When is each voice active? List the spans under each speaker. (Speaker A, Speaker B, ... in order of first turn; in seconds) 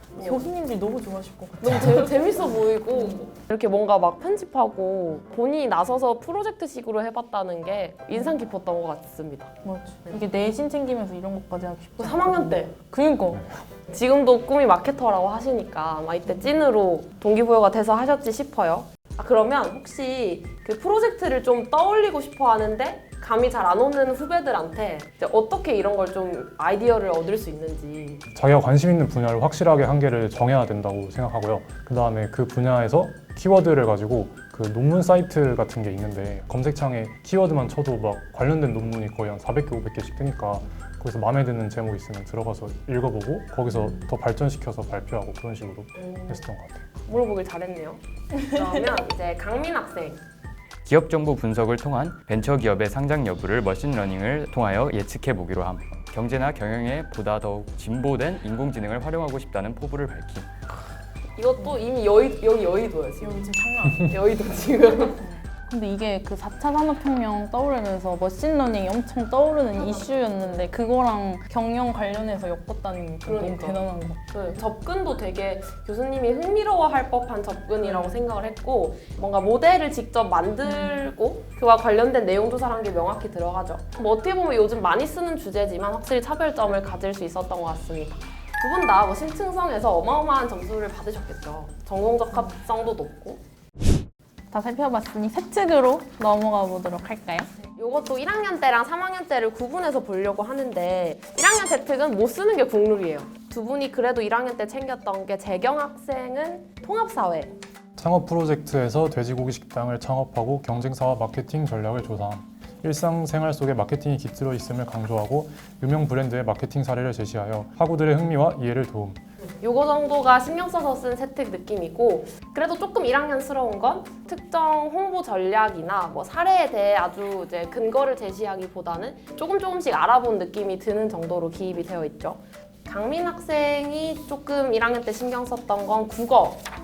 Speaker A: 0.1-2.4, 9.6-13.4, 63.2-64.2, 65.2-74.2, 77.8-78.2, 80.7-81.0, 94.5-97.5
Speaker B: 0.1-0.5, 1.6-9.5, 12.0-12.7, 13.9-28.2, 46.0-46.4, 47.0-50.2, 61.4-63.4, 64.0-65.2, 69.7-70.7, 73.2-73.8, 74.3-93.4, 97.6-107.5, 119.6-136.6
Speaker C: 13.3-13.6, 28.3-47.1, 108.0-119.2
Speaker D: 50.8-60.5